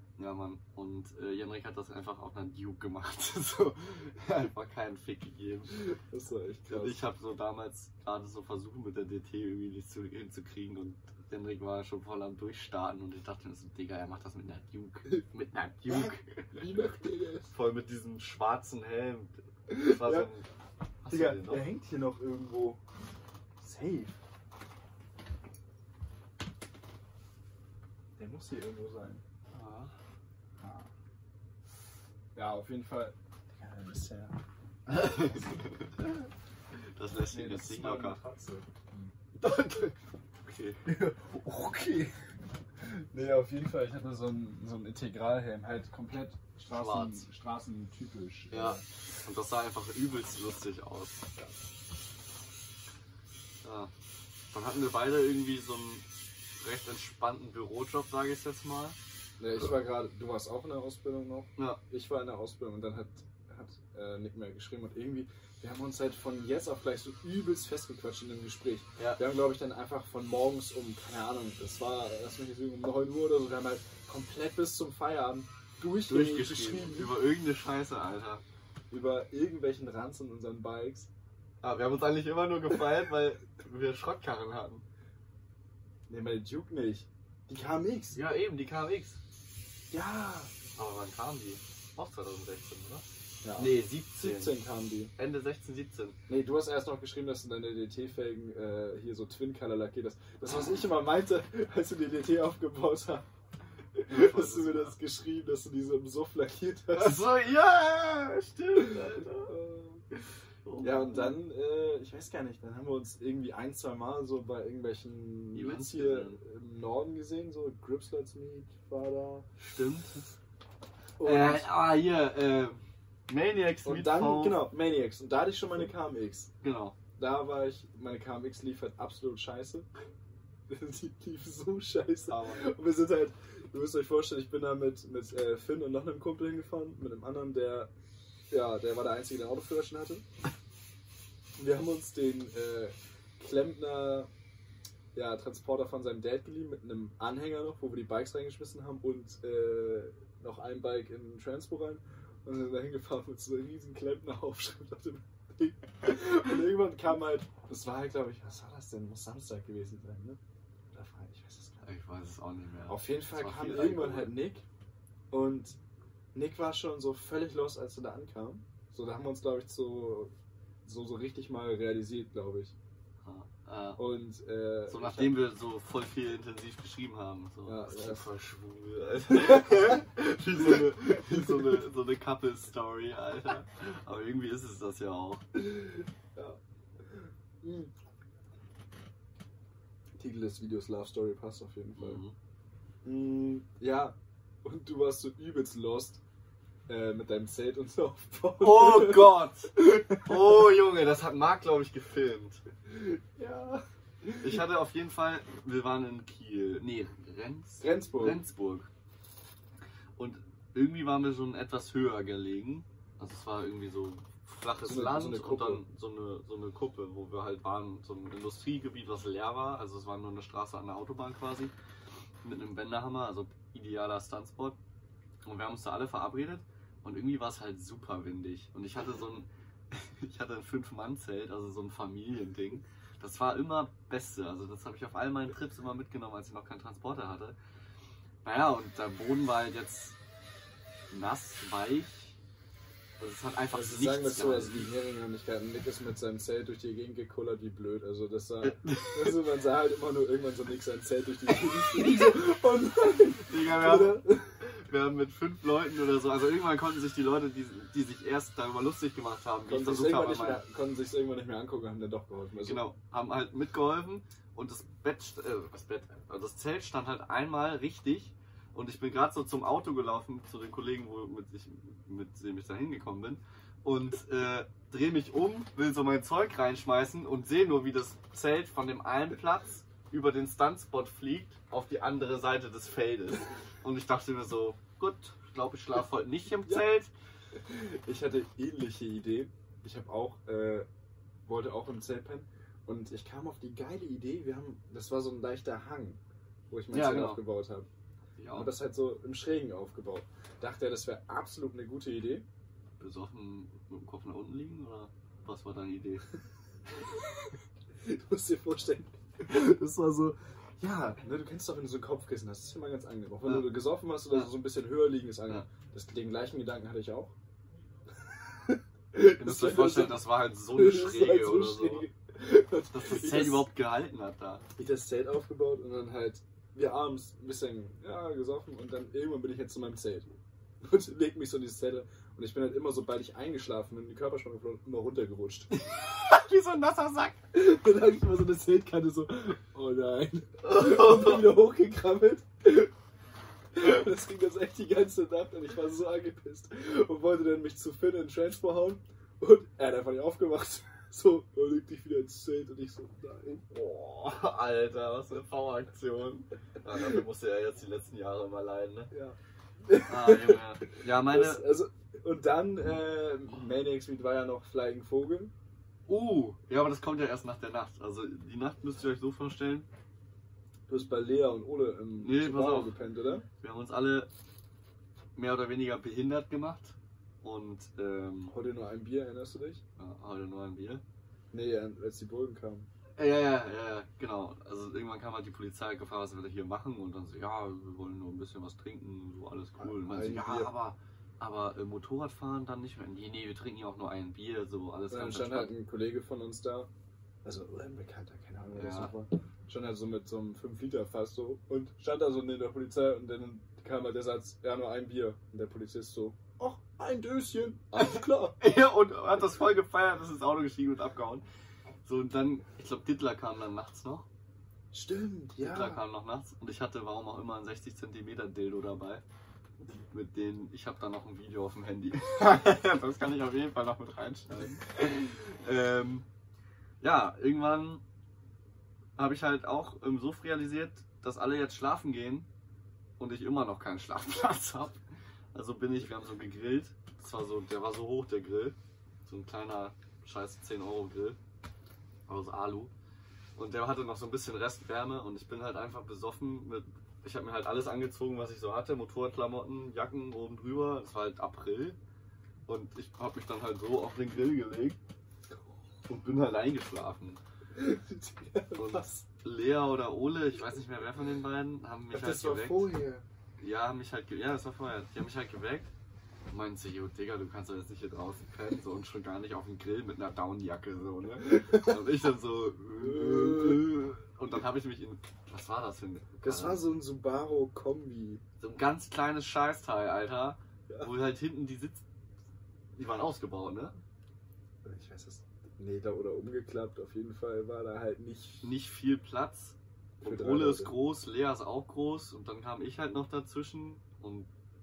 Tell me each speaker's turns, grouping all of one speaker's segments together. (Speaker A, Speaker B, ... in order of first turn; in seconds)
Speaker A: 0.2-5.8, 6.7-16.7, 17.5-20.5, 21.0-21.7, 29.5-29.9, 34.9-36.1, 37.0-38.2, 39.4-40.8, 46.7-47.3, 48.5-51.3, 53.6-53.9, 54.5-56.1, 56.6-59.0, 76.1-78.4, 81.6-84.8, 88.1-89.2, 90.8-94.6, 95.2-96.2, 104.1-105.0, 106.9-109.5, 110.7-111.4, 115.5-116.4, 119.6-120.3, 121.2-124.7, 126.6-127.0, 132.3-132.7, 161.8-164.4, 173.2-174.1, 174.9-185.5, 192.0-192.4, 198.6-202.6, 204.4-208.9, 210.2-221.7, 222.4-224.8, 225.4-237.6, 238.4-240.2, 241.1-242.4, 243.2-244.9, 248.6-249.4, 251.6-252.5, 253.4-260.6, 262.6-287.1, 296.9-297.4, 298.4-298.7, 303.0-306.3, 313.4-314.5, 319.4-322.1, 322.9-324.7, 335.7-337.4, 340.6-341.6, 353.7-359.1, 360.1-361.7, 366.1-369.9, 372.2-373.0, 373.6-374.3, 375.4-378.5, 380.0-381.0, 383.2-395.7, 398.8-399.1, 408.0-411.4, 412.1-414.3, 415.6-419.2, 420.1-426.3, 427.0-428.0, 429.2-432.5, 433.2-435.0, 435.5-441.4, 442.3-442.9, 443.6-452.0, 452.7-455.0, 456.1-457.4, 458.8-462.9, 463.6-465.9, 466.5-476.9, 478.6-482.0, 482.9-484.0, 488.6-494.5
Speaker B: 5.7-7.0, 15.9-17.5, 19.7-20.3, 21.1-22.8, 23.6-24.2, 28.2-29.2, 30.6-30.9, 32.4-34.4, 34.9-35.4, 37.3-39.2, 40.9-42.1, 42.8-48.8, 59.4-77.2, 78.9-81.1, 86.1-88.2, 89.9-90.5, 93.4-95.1, 96.3-103.3, 104.0-107.2, 108.8-110.0, 110.8-119.5, 121.2-121.7, 123.8-126.5, 127.2-129.9, 130.7-137.9, 138.5-140.2, 141.6-144.3, 145.1-160.4, 160.9-161.9, 162.9-164.6, 165.3-165.8, 166.3-170.3, 170.8-172.8, 174.0-175.4, 177.7-178.3, 179.3-180.0, 180.6-181.8, 186.3-187.9, 190.2-192.2, 193.1-196.2, 196.9-200.7, 202.9-204.6, 207.8-208.4, 214.8-215.8, 243.7-254.5, 259.6-262.8, 287.6-290.9, 291.5-296.2, 296.7-297.9, 298.5-302.4, 308.0-317.3, 318.6-323.7, 324.8-330.3, 330.8-335.7, 337.5-342.9, 343.8-353.6, 359.1-360.6, 361.1-365.5, 370.9-373.4, 378.5-379.8, 381.5-382.9, 389.8-390.7, 395.1-396.9, 397.4-408.6, 414.9-416.0, 457.8-459.2, 462.1-463.2, 471.5-472.0, 473.0-473.9, 476.4-478.4, 484.8-488.8, 490.2-491.0